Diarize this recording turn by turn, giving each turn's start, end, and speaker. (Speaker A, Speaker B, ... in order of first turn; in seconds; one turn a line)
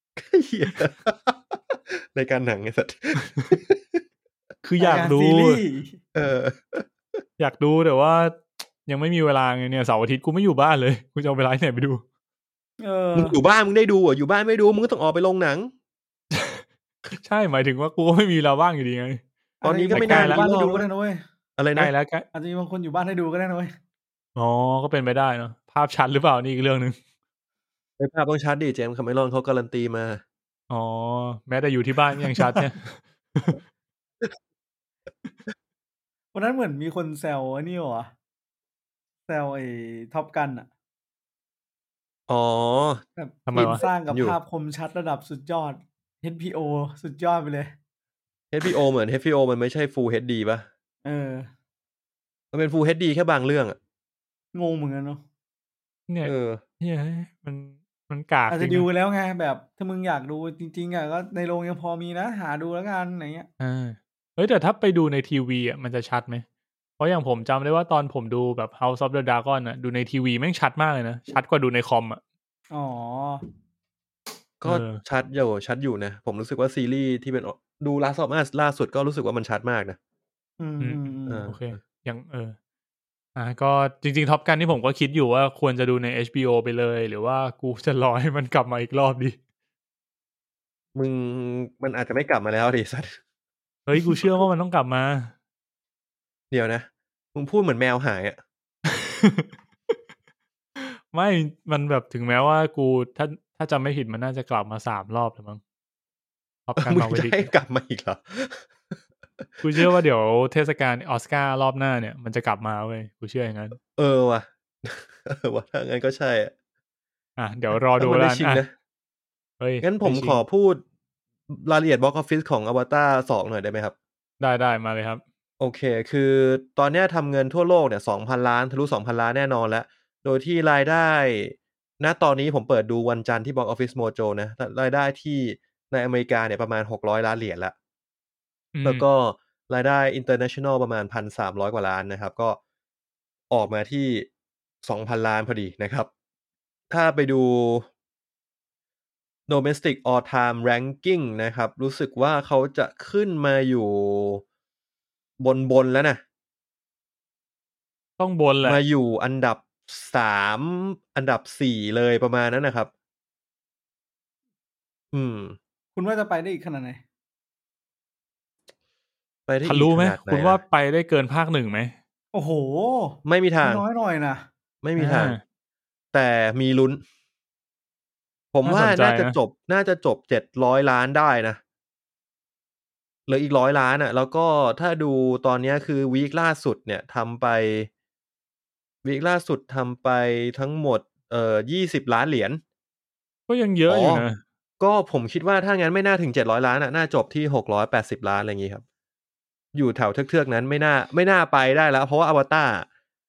Speaker A: 0.2-4.0
Speaker B: 3.2-3.5
Speaker B: 4.6-5.6
Speaker C: 4.8-6.0
Speaker A: 6.2-6.9
Speaker B: 7.4-12.0
Speaker C: 12.8-13.4
Speaker A: 13.2-15.7
Speaker B: 16.3-19.2
Speaker C: 19.6-21.2
Speaker A: 19.6-20.9
Speaker B: 19.9-20.4
Speaker A: 21.6-21.9
Speaker B: 21.8-22.3
Speaker C: 22.3-23.7
Speaker B: 24.4-27.0
Speaker A: 28.0-30.2
Speaker B: 30.7-33.6
Speaker C: 36.3-38.1
Speaker C: 39.3-40.7
Speaker A: 42.3-43.0
Speaker C: 43.2-47.7
Speaker B: 43.5-43.8
Speaker A: 43.6-44.4
Speaker A: 48.5-50.7
Speaker C: 51.0-51.5
Speaker A: 52.5-53.8
Speaker C: 54.5-55.2
Speaker B: 56.1-58.9
Speaker A: 56.2-56.6
Speaker C: 58.5-63.5
Speaker B: 63.6-66.5
Speaker B: 67.0-72.2
Speaker C: 72.7-73.4
Speaker A: 74.6-80.0
Speaker B: 74.7-75.0
Speaker C: 80.6-81.5
Speaker B: 80.8-82.6
Speaker A: 81.3-81.8
Speaker B: 83.4-89.4
Speaker A: 91.0-93.2
Speaker B: 93.9-95.3
Speaker A: 94.0-94.5
Speaker A: 96.5-98.4
Speaker B: 98.9-99.5
Speaker B: 100.8-105.6
Speaker B: 106.7-107.5
Speaker A: 106.8-108.7
Speaker A: 109.4-109.9
Speaker B: 109.6-113.8
Speaker A: 113.9-116.5
Speaker B: 117.4-118.6
Speaker A: 118.0-118.7
Speaker B: 119.6-120.4
Speaker A: 119.8-120.8
Speaker A: 121.5-124.0
Speaker B: 124.4-125.2
Speaker A: 125.6-137.7
Speaker B: 138.8-139.1
Speaker A: 138.8-142.6
Speaker A: 143.5-144.3
Speaker A: 144.8-146.1
Speaker A: 146.9-147.9
Speaker A: 149.5-154.4
Speaker A: 155.4-156.2
Speaker B: 158.2-158.8
Speaker A: 158.6-162.9
Speaker A: 165.1-165.6
Speaker C: 165.9-167.0
Speaker A: 169.5-170.6
Speaker B: 169.7-172.0
Speaker C: 172.3-174.5
Speaker A: 173.2-173.8
Speaker A: 174.8-175.4
Speaker B: 175.0-175.4
Speaker A: 176.1-177.0
Speaker A: 178.5-181.6
Speaker B: 178.7-179.4
Speaker A: 183.3-187.9
Speaker A: 189.0-192.6
Speaker B: 193.5-194.4
Speaker A: 193.9-194.2
Speaker A: 194.8-198.8
Speaker A: 199.7-202.9